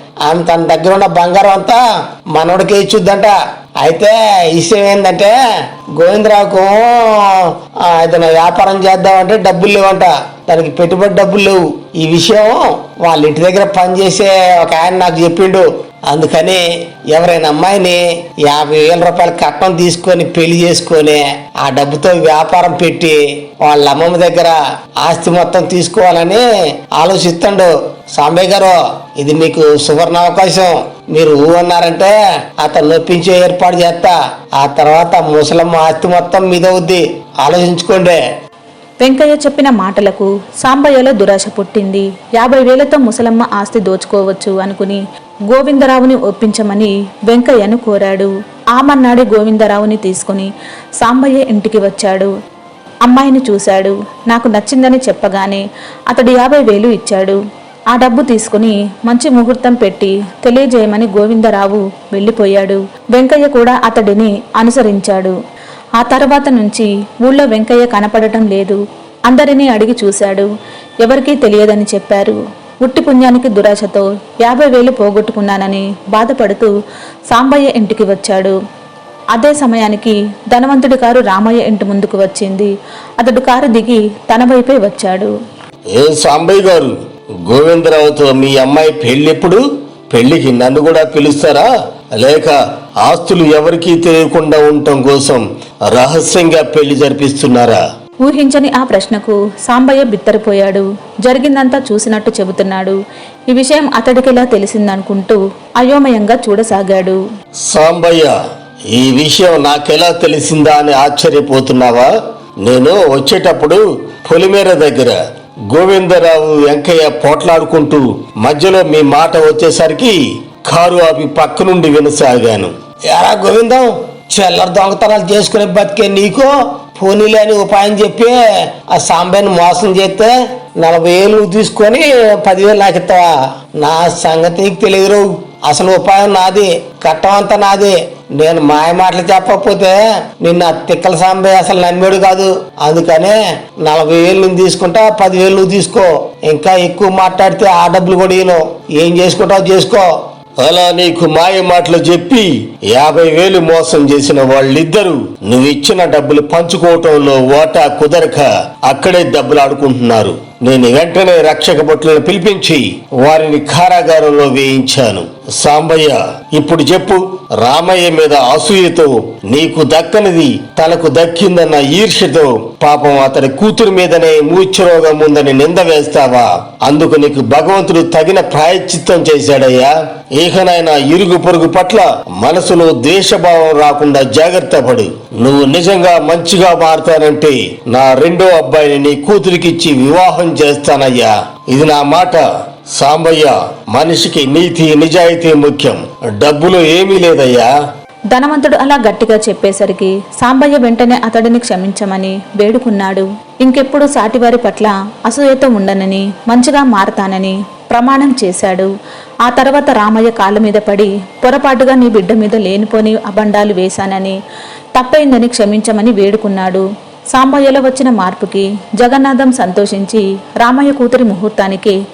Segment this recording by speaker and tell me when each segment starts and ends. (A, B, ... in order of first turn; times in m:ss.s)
0:00.2-0:05.4 A
0:06.0-0:38.2 A
0:39.0-0:50.5 B
0:51.0-0:52.3 B
0:53.0-0:57.4 B
0:57.9-1:05.3 B
1:06.0-1:10.5 B
1:11.0-1:16.7 B
1:17.3-1:18.6 B
1:19.3-1:25.3 B
1:26.0-1:26.9 C
1:27.5-1:29.6 C
1:30.1-1:31.6 C
1:32.2-1:32.5 C
1:33.0-1:35.4 C
1:35.9-1:37.8 C
1:38.2-1:43.0 B
1:43.5-1:47.2 B
1:47.7-1:48.3 C
1:49.0-1:52.1 C
1:52.6-1:55.1 C
1:55.7-2:00.1 C
2:00.7-2:02.7 C
2:03.1-2:30.1 A
2:30.6-2:42.8 C
2:43.2-2:43.9 A
2:43.4-2:56.4 C
2:57.0-2:59.8 C
3:00.4-3:11.1 C
3:05.9-3:06.8 A
3:09.6-3:10.4 A
3:11.7-3:12.1 C
3:12.0-3:12.4 A
3:13.0-3:13.3 C
3:13.1-3:13.5 A
3:13.9-3:17.1 C
3:14.1-3:15.4 A
3:17.0-3:17.6 A
3:18.3-3:28.9 B
3:29.4-3:34.4 B
3:35.0-3:42.0 B